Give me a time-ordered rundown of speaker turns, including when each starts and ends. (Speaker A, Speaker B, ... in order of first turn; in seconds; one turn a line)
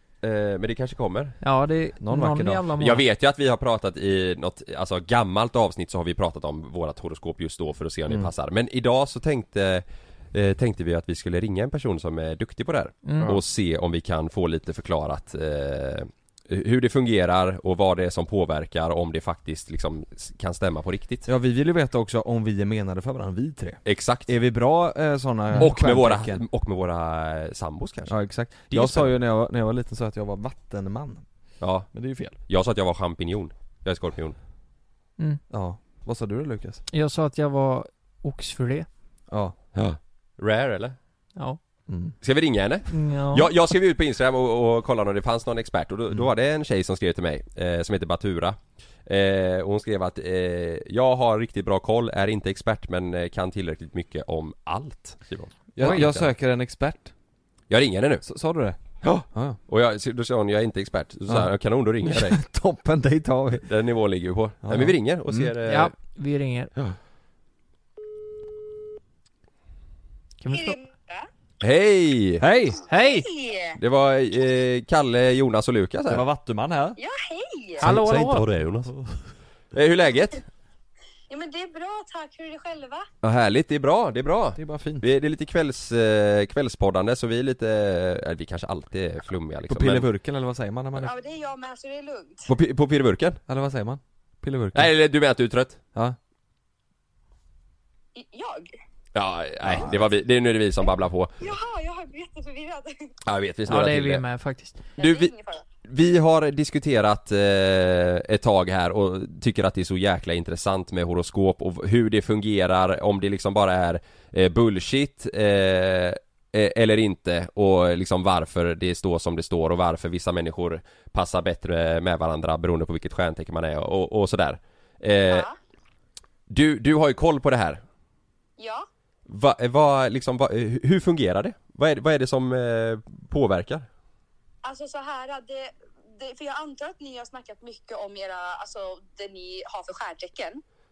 Speaker A: 0.2-1.4
Speaker B: 1.4-3.0
Speaker C: 2.0-2.7
Speaker A: 2.8-21.3
Speaker B: 13.0-13.4
Speaker C: 21.3-26.4
Speaker A: 23.9-24.3
Speaker A: 25.6-29.2
Speaker C: 28.1-31.2
Speaker A: 31.6-34.4
Speaker C: 31.9-32.3
Speaker C: 35.5-36.8
Speaker B: 36.9-38.9
Speaker C: 39.3-39.6
Speaker A: 39.8-41.0
Speaker C: 41.9-42.1
Speaker A: 42.2-56.3
Speaker B: 42.9-43.5
Speaker C: 55.8-57.1
Speaker A: 57.7-58.2
Speaker C: 58.2-58.8
Speaker A: 59.0-62.4
Speaker C: 59.3-59.6
Speaker C: 62.0-63.7
Speaker A: 63.7-65.9
Speaker C: 64.6-65.5
Speaker B: 65.7-66.7
Speaker B: 70.4-70.8
Speaker D: 70.5-71.3
Speaker A: 71.6-72.4
Speaker C: 72.4-72.8
Speaker B: 72.9-73.3
Speaker D: 73.0-73.8
Speaker A: 73.8-76.2
Speaker C: 76.1-77.0
Speaker D: 77.0-77.8
Speaker A: 77.8-78.9
Speaker B: 77.8-78.4
Speaker A: 79.7-80.4
Speaker D: 81.3-83.1
Speaker A: 83.2-90.1
Speaker C: 84.6-85.0
Speaker C: 89.7-91.1
Speaker D: 91.0-92.5
Speaker A: 92.5-93.4
Speaker C: 93.5-94.9
Speaker A: 94.7-95.8
Speaker D: 98.2-98.8
Speaker A: 99.2-101.3
Speaker C: 99.6-100.0
Speaker D: 101.4-103.1
Speaker A: 103.3-104.2
Speaker B: 103.7-104.8
Speaker D: 105.0-105.6
Speaker A: 105.0-105.3
Speaker A: 105.9-125.5
Speaker D: 125.3-125.5
Speaker A: 126.5-127.8
Speaker D: 128.6-128.9
Speaker A: 129.3-133.9
Speaker D: 134.6-140.6